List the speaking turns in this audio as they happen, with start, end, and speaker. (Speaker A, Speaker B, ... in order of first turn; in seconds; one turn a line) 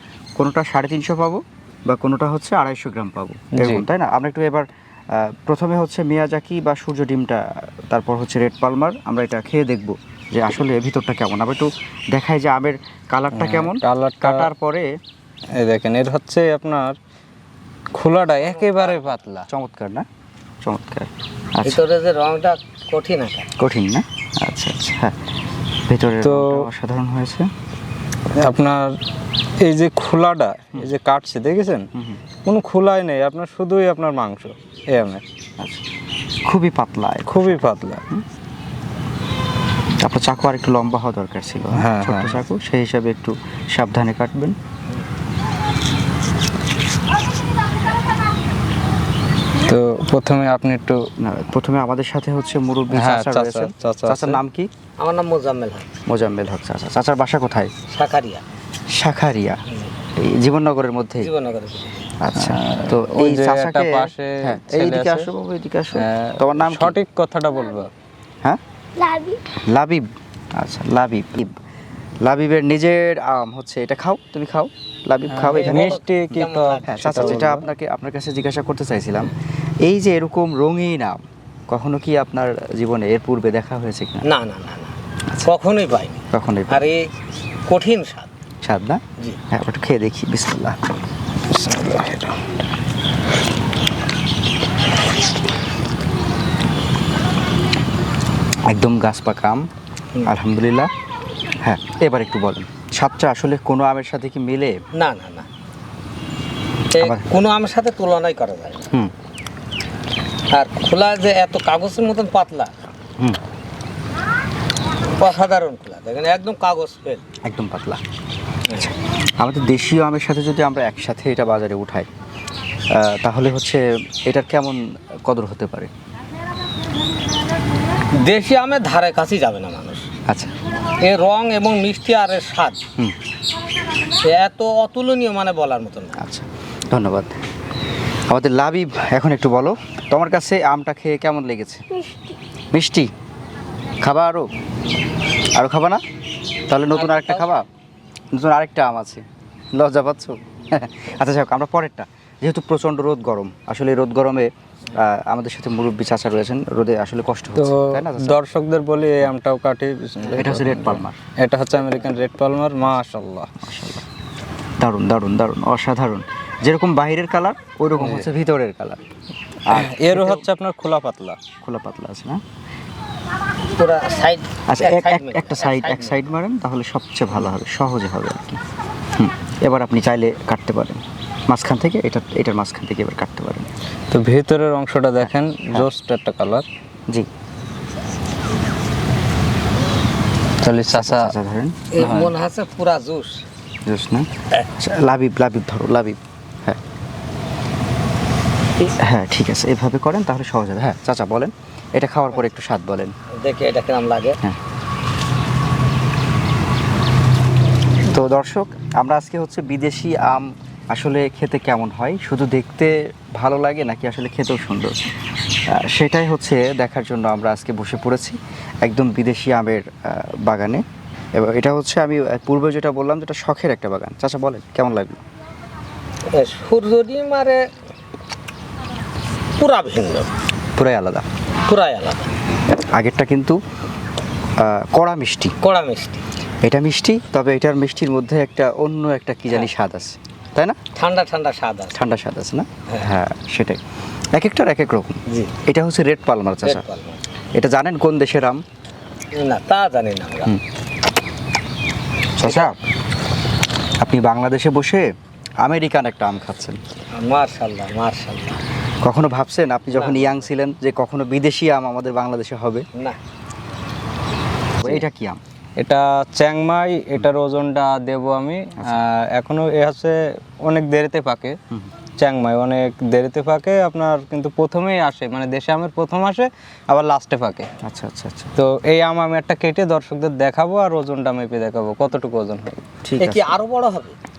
Speaker A: 0.4-14.9
Speaker B: 3.6-3.9
Speaker B: 13.3-14.5
Speaker B: 15.6-17.0
Speaker B: 18.0-19.5
Speaker C: 18.4-19.1
Speaker A: 19.5-20.1
Speaker A: 20.6-21.8
Speaker C: 21.6-23.5
Speaker A: 23.6-25.2
Speaker A: 25.9-27.5
Speaker B: 26.2-26.7
Speaker B: 28.4-29.0
Speaker B: 29.6-31.9
Speaker A: 31.9-32.2
Speaker B: 32.5-35.2
Speaker A: 35.6-35.8
Speaker A: 36.5-38.2
Speaker B: 37.3-38.0
Speaker A: 40.0-44.6
Speaker B: 41.8-42.4
Speaker B: 49.7-51.0
Speaker A: 51.2-54.7
Speaker B: 52.9-54.4
Speaker C: 55.0-55.9
Speaker A: 56.1-57.7
Speaker C: 57.9-58.4
Speaker A: 58.9-59.6
Speaker A: 60.2-61.3
Speaker C: 61.2-62.1
Speaker A: 62.2-67.0
Speaker B: 62.4-65.3
Speaker B: 66.0-67.9
Speaker A: 69.5-71.5
Speaker A: 72.2-76.0
Speaker B: 75.3-77.6
Speaker C: 75.4-77.4
Speaker A: 76.9-84.2
Speaker C: 84.2-87.0
Speaker A: 86.3-86.9
Speaker C: 87.7-88.3
Speaker A: 88.6-90.8
Speaker B: 91.5-92.4
Speaker A: 98.7-99.7
Speaker A: 100.3-100.9
Speaker A: 101.6-104.8
Speaker C: 104.9-105.5
Speaker C: 106.9-108.8
Speaker A: 107.0-107.3
Speaker C: 110.5-112.7
Speaker C: 115.2-117.2
Speaker A: 117.4-118.0
Speaker A: 118.7-122.1
Speaker A: 122.9-125.9
Speaker C: 128.2-130.1
Speaker A: 130.3-130.6
Speaker C: 131.0-132.8
Speaker C: 134.2-136.2
Speaker A: 136.2-137.3
Speaker A: 138.3-142.1
Speaker A: 142.7-143.1
Speaker A: 144.0-144.5
Speaker A: 145.6-146.0
Speaker A: 146.7-147.7
Speaker C: 146.9-147.6
Speaker A: 148.3-158.4
Speaker B: 157.6-163.6
Speaker A: 160.3-161.2
Speaker A: 163.6-164.0
Speaker A: 164.8-169.0
Speaker B: 168.0-168.3
Speaker A: 169.7-170.5
Speaker B: 169.7-171.4
Speaker A: 171.6-172.4
Speaker C: 173.8-176.2
Speaker A: 174.7-178.6
Speaker A: 179.2-183.7
Speaker B: 184.1-186.7
Speaker A: 185.2-185.9
Speaker B: 190.6-191.3
Speaker A: 190.9-192.2
Speaker C: 191.9-193.4
Speaker B: 192.0-192.3
Speaker A: 193.9-196.8
Speaker A: 198.8-203.1
Speaker C: 203.4-204.4
Speaker A: 208.1-215.0
Speaker A: 215.7-220.8
Speaker A: 221.4-225.2
Speaker C: 226.3-227.7
Speaker C: 229.6-230.3
Speaker A: 230.8-231.2
Speaker C: 231.7-232.3
Speaker A: 232.9-233.6
Speaker A: 234.6-235.5
Speaker C: 235.6-236.2
Speaker A: 236.6-240.8
Speaker C: 241.0-242.0
Speaker A: 241.9-243.8
Speaker A: 244.3-246.8
Speaker C: 245.3-245.5
Speaker C: 246.6-247.2
Speaker A: 247.6-248.6
Speaker C: 249.3-250.6
Speaker A: 252.4-252.8
Speaker C: 252.4-252.7
Speaker A: 254.0-255.1
Speaker A: 255.6-256.8
Speaker C: 257.1-258.6
Speaker A: 259.0-262.9
Speaker C: 259.9-260.5
Speaker A: 264.8-265.4
Speaker B: 265.8-271.6
Speaker B: 272.2-277.7
Speaker A: 277.8-278.5
Speaker B: 278.6-282.8
Speaker A: 283.0-283.6
Speaker C: 283.2-284.2